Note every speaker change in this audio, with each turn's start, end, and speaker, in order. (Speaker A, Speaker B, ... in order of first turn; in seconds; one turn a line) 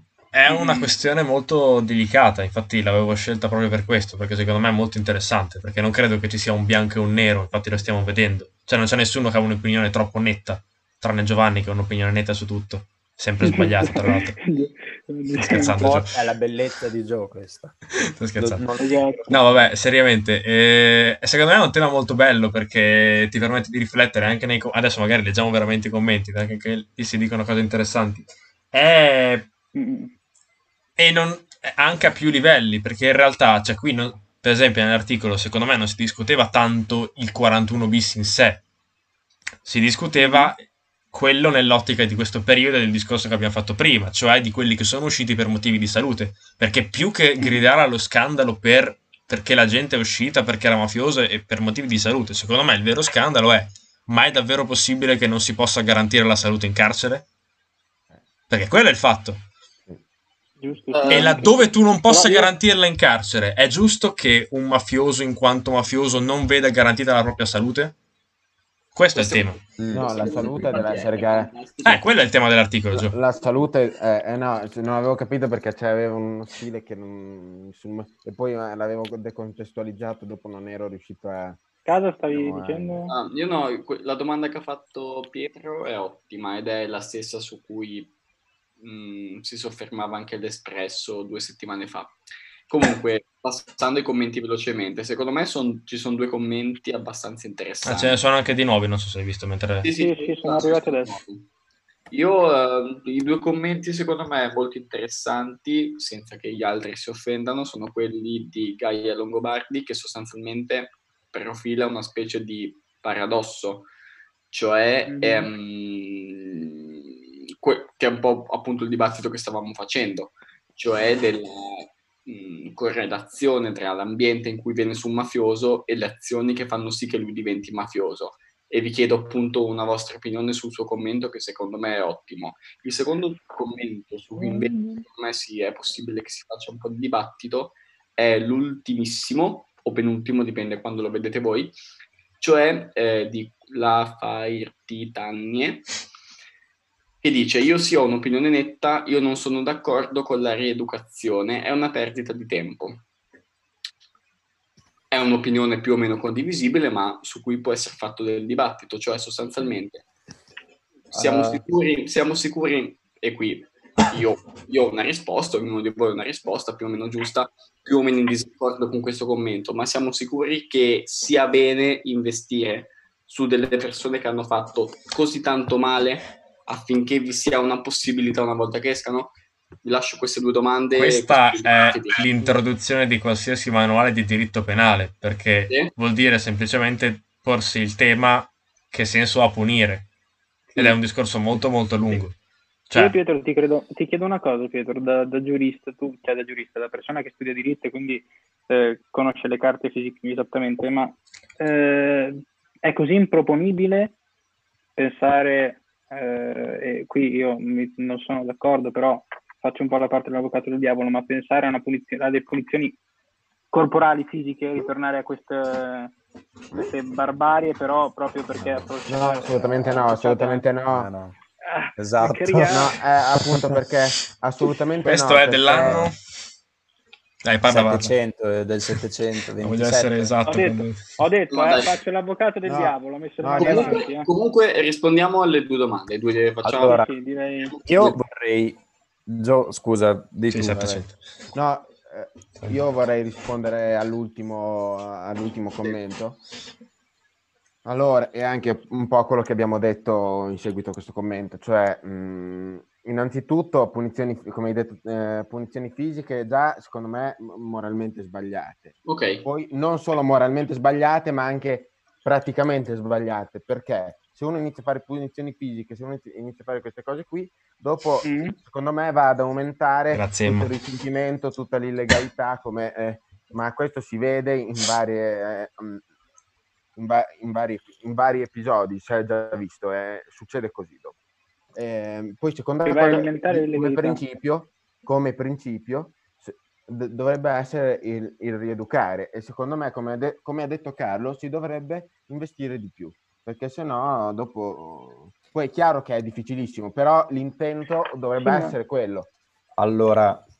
Speaker A: 0.3-14.3
Speaker B: 0.5-0.9
Speaker B: 13.4-15.9
Speaker A: 15.3-16.2
Speaker C: 15.8-17.7
Speaker A: 18.0-18.7
Speaker C: 18.3-19.3
Speaker B: 18.8-19.4
Speaker A: 19.3-29.4
Speaker B: 29.7-30.1
Speaker A: 31.0-38.6
Speaker A: 39.6-57.2
Speaker B: 40.1-40.5
Speaker B: 47.4-47.7
Speaker A: 58.5-59.4
Speaker B: 60.6-62.5
Speaker D: 60.9-61.5
Speaker A: 61.1-67.9
Speaker A: 68.9-69.6
Speaker D: 69.1-72.2
Speaker C: 69.8-70.8
Speaker E: 69.9-71.5
Speaker A: 71.8-73.2
Speaker E: 72.9-81.6
Speaker B: 81.8-83.1
Speaker E: 82.3-83.1
Speaker D: 83.1-88.1
Speaker D: 88.8-92.2
Speaker D: 92.7-98.2
Speaker A: 97.8-99.9
Speaker D: 99.8-101.5
Speaker B: 100.0-101.2
Speaker D: 102.1-113.9
Speaker D: 114.5-117.0
Speaker B: 115.1-115.5
Speaker D: 117.6-141.7
Speaker B: 134.4-135.0
Speaker D: 142.4-145.9
Speaker D: 147.2-153.0
Speaker D: 155.1-160.0
Speaker C: 161.1-161.6
Speaker D: 161.1-182.6
Speaker A: 180.9-190.1
Speaker D: 185.7-185.9
Speaker A: 190.7-192.3
Speaker A: 192.9-193.2
Speaker B: 192.9-204.1
Speaker B: 205.0-212.9
Speaker B: 213.7-216.1
Speaker B: 216.7-220.6
Speaker C: 218.5-218.9
Speaker E: 219.1-221.1
Speaker C: 220.9-221.3
Speaker B: 221.6-222.9
Speaker C: 222.0-222.9
Speaker E: 222.7-226.1
Speaker A: 225.0-226.2
Speaker A: 227.4-228.1
Speaker C: 227.7-230.3
Speaker A: 229.6-231.2
Speaker B: 230.5-234.3
Speaker D: 231.5-231.9
Speaker E: 232.6-234.1
Speaker D: 233.6-237.0
Speaker C: 236.6-237.1
Speaker B: 236.8-237.7
Speaker D: 237.6-238.2
Speaker C: 237.8-241.0
Speaker A: 240.5-241.2
Speaker E: 241.5-246.4
Speaker E: 247.8-276.0
Speaker D: 259.0-259.4
Speaker B: 268.2-268.6
Speaker A: 270.1-270.7
Speaker E: 276.9-281.1
Speaker E: 281.7-299.3
Speaker B: 282.8-284.2
Speaker B: 298.4-298.7
Speaker C: 299.8-300.4